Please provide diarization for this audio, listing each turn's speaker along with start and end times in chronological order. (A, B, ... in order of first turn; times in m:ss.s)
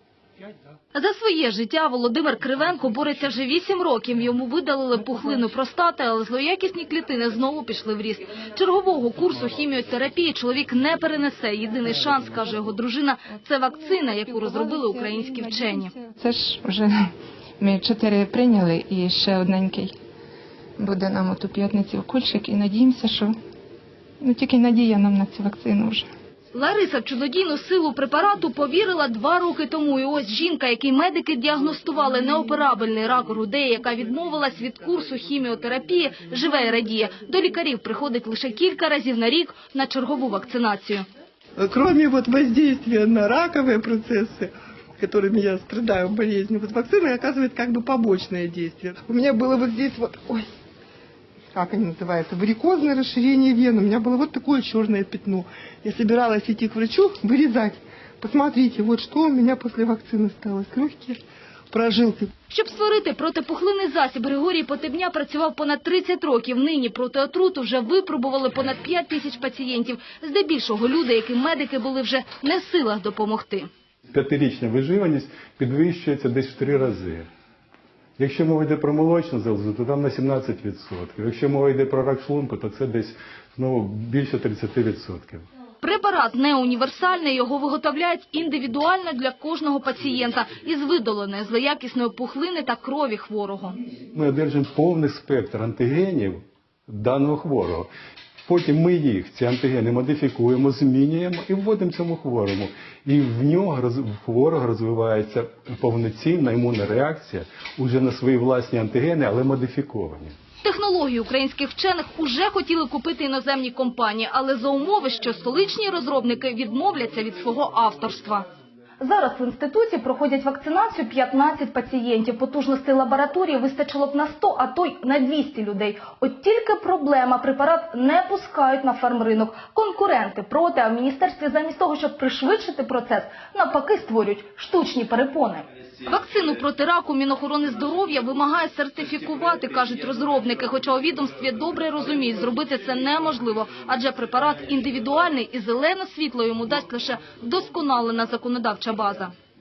0:00.9-0:15.9 A
0:15.7-0:16.9 B
0:17.6-0:19.9 B
0:20.8-0:23.3 B
0:24.2-0:26.1 B
0:26.5-0:41.0 A
0:41.6-0:50.5 C
0:51.5-1:01.2 C
1:01.7-1:02.3 C
1:02.5-1:13.7 A
1:14.1-1:17.3 D
1:18.2-1:25.4 D
1:25.8-1:33.8 A
1:34.1-1:37.9 D
1:38.4-1:50.3 D
1:50.6-1:58.5 A
1:59.0-2:29.3 A